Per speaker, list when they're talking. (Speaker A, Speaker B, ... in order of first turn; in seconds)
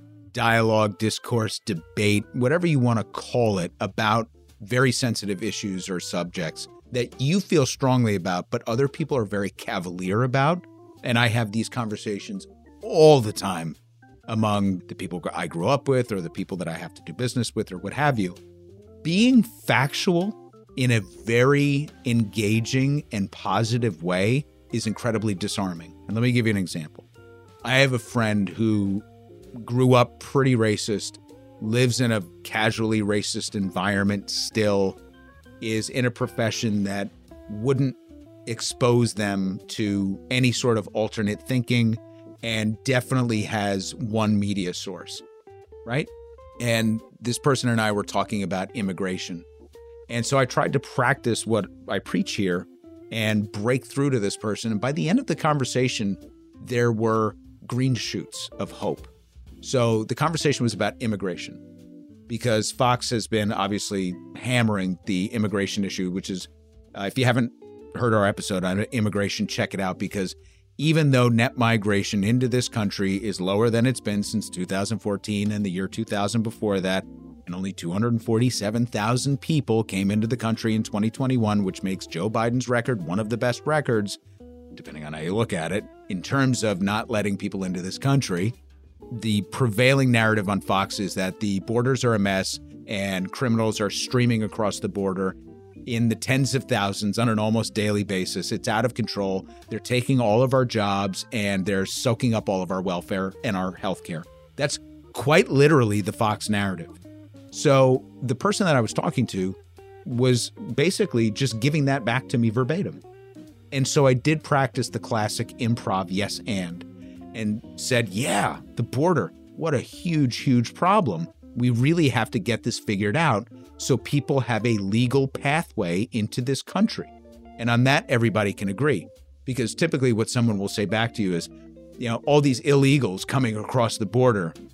Speaker A: 0.3-18.4, 19.0-27.0, 27.6-29.0, 29.6-35.0, 35.6-45.2, 45.8-49.5, 50.1-59.1, 59.6-61.6, 62.3-84.2, 84.7-88.5, 89.1-107.0, 107.5-113.0, 113.7-134.6